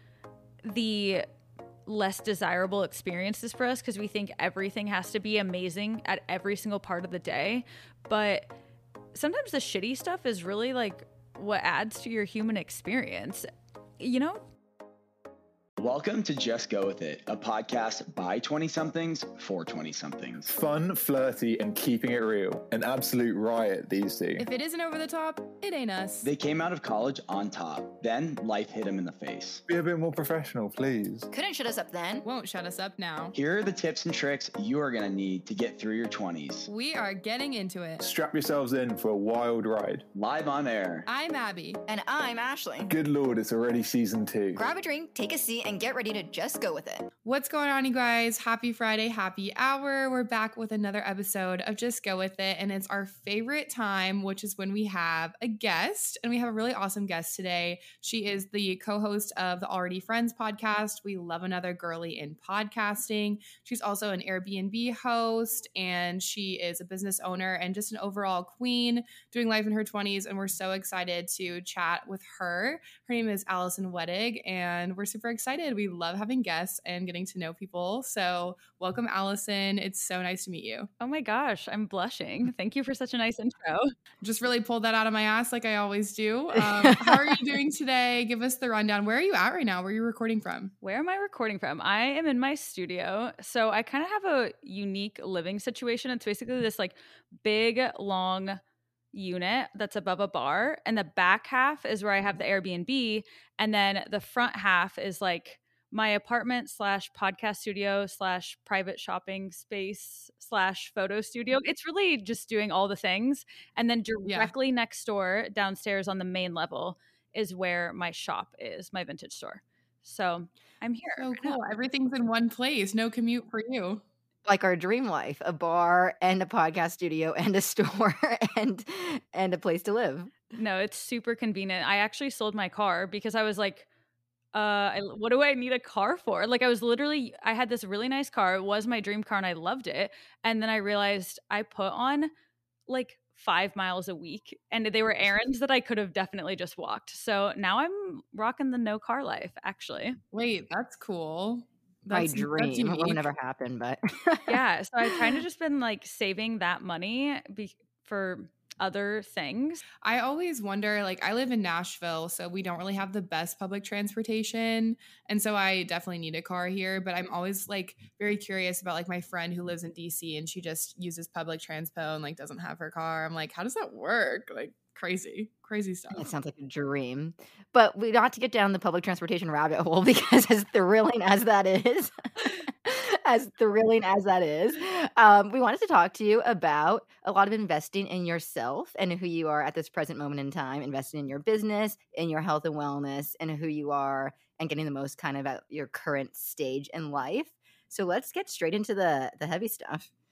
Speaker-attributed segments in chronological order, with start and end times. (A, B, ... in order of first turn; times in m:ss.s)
0:00.6-0:01.2 A
0:01.9-0:08.5 A
0:09.1-0:13.5 A
0:14.0-0:14.4 A
0:15.8-0:20.5 B
0:20.5-0:24.4 C
0:24.4-0:26.3 D
0:26.2-0:29.6 B
0:29.7-0:31.3 C
0:31.3-0:32.2 E
0:32.2-0:33.3 D
0:33.3-0:36.7 B
0:36.6-0:38.0 D
0:38.0-0:40.0 C
0:40.1-0:41.1 B
0:41.1-0:41.8 D
0:41.9-0:42.9 E
0:42.9-0:44.7 C
0:44.5-0:47.0 E
0:47.2-1:20.9 D
1:21.0-1:23.9 A
1:24.2-1:30.7 D
1:26.5-1:27.3 E
1:30.8-1:38.6 A
1:39.1-2:01.6 A
1:54.3-1:54.5 D
2:01.2-2:04.0 D
2:04.4-2:10.3 E
2:10.5-2:13.9 A
2:14.5-2:22.3 A
2:22.9-2:30.2 A
2:30.3-2:33.2 D
2:32.1-2:34.6 E
2:34.5-2:39.8 A
2:40.0-2:56.2 D
2:56.1-3:20.1 E